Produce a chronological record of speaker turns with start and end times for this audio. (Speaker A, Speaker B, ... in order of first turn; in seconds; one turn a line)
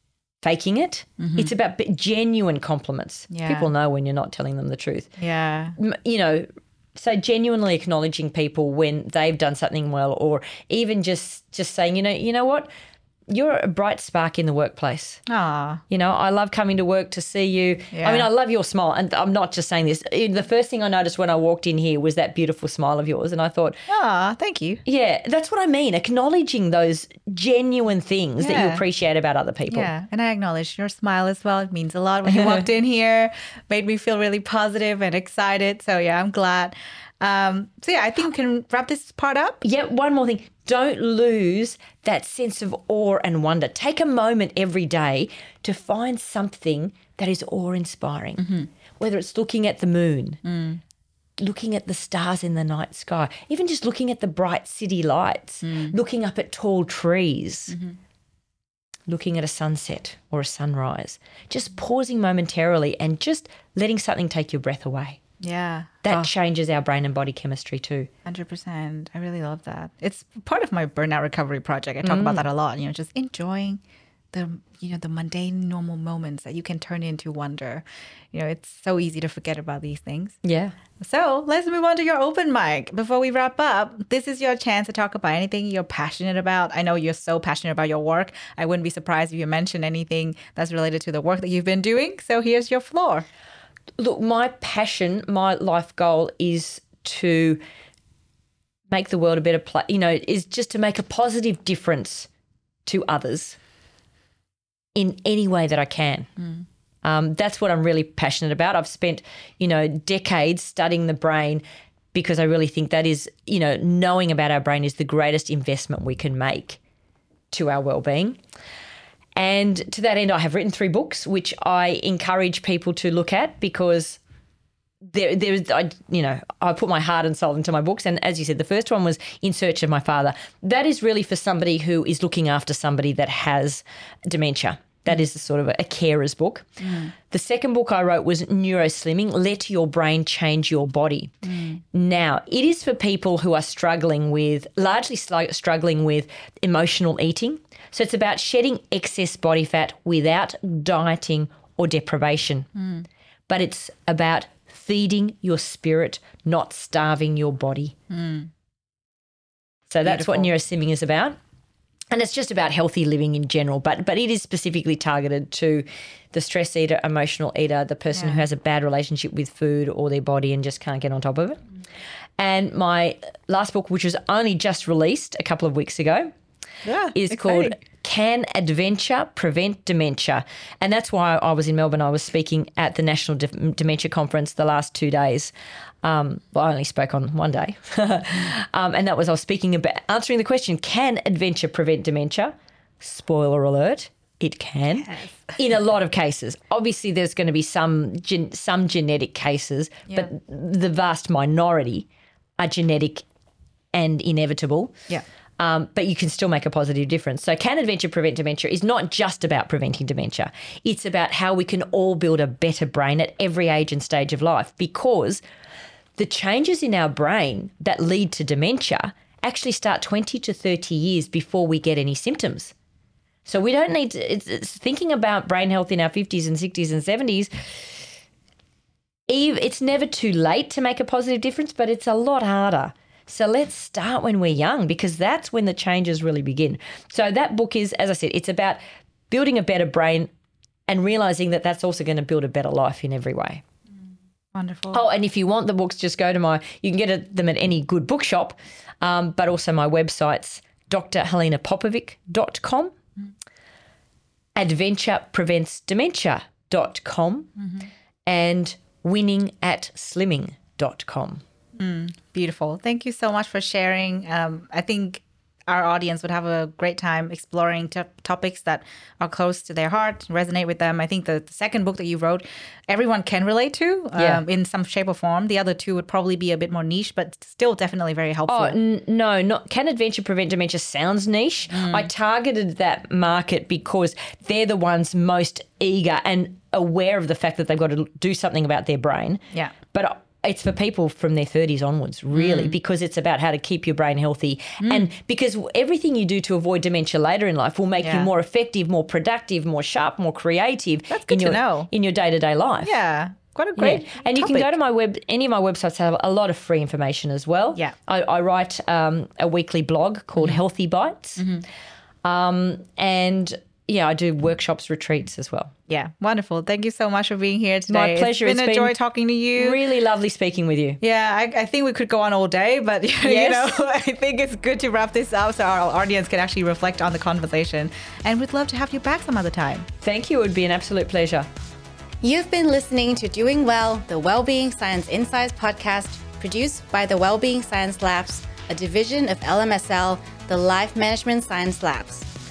Speaker A: 0.4-5.1
Speaker B: 1.2-1.5
Speaker B: 3.3-3.7
Speaker B: 5.2-5.8
Speaker A: 5.8-12.7
Speaker A: 13.3-15.2
Speaker B: 15.3-15.8
Speaker A: 15.9-23.8
Speaker B: 17.9-18.3
Speaker B: 23.9-24.8
Speaker A: 24.9-29.9
Speaker B: 28.4-28.8
Speaker B: 29.7-39.6
Speaker A: 39.6-48.5
Speaker B: 48.4-48.7
Speaker A: 49.0-50.4
Speaker B: 50.5-50.8
Speaker A: 51.4-57.8
Speaker B: 55.6-55.9
Speaker B: 57.7-58.0
Speaker A: 59.1-65.2
Speaker B: 65.4-66.3
Speaker A: 66.0-68.1
Speaker B: 68.2-73.8
Speaker A: 72.0-72.5
Speaker B: 74.3-80.4
Speaker A: 80.4-80.8
Speaker B: 81.0-93.3
Speaker A: 94.0-97.6
Speaker A: 98.9-102.3
Speaker A: 102.9-103.6
Speaker A: 105.0-106.3
Speaker A: 107.0-116.8
Speaker A: 117.5-118.4
Speaker A: 119.4-124.2
Speaker A: 125.1-136.8
Speaker B: 136.8-137.1
Speaker A: 137.3-141.4
Speaker B: 141.4-141.8
Speaker A: 141.9-152.7
Speaker B: 152.8-153.1
Speaker A: 153.5-157.9
Speaker B: 158.1-158.5
Speaker A: 159.9-161.4
Speaker B: 160.1-160.5
Speaker A: 162.1-171.6
Speaker B: 168.1-168.4
Speaker A: 172.4-176.3
Speaker B: 176.8-177.8
Speaker A: 177.1-185.5
Speaker A: 186.0-202.1
Speaker B: 195.1-195.5
Speaker A: 202.6-203.2
Speaker A: 203.9-205.0
Speaker A: 205.6-215.4
Speaker A: 216.2-222.7
Speaker A: 223.5-227.5
Speaker A: 229.3-240.3
Speaker A: 240.9-243.6
Speaker B: 244.5-245.0
Speaker A: 244.9-252.9
Speaker A: 254.6-257.5
Speaker A: 258.3-261.4
Speaker B: 261.8-278.8
Speaker A: 274.2-274.4
Speaker A: 278.5-302.9
Speaker B: 281.7-282.1
Speaker B: 292.3-292.8
Speaker B: 294.8-295.1
Speaker B: 298.0-298.3
Speaker B: 301.1-301.9
Speaker B: 302.8-304.7
Speaker A: 303.8-311.4
Speaker B: 311.4-311.6
Speaker A: 312.2-315.7
Speaker B: 315.9-319.8
Speaker A: 317.9-318.9
Speaker A: 319.6-321.0
Speaker B: 321.0-329.9
Speaker A: 323.2-323.8
Speaker A: 330.0-331.5
Speaker C: 332.2-342.3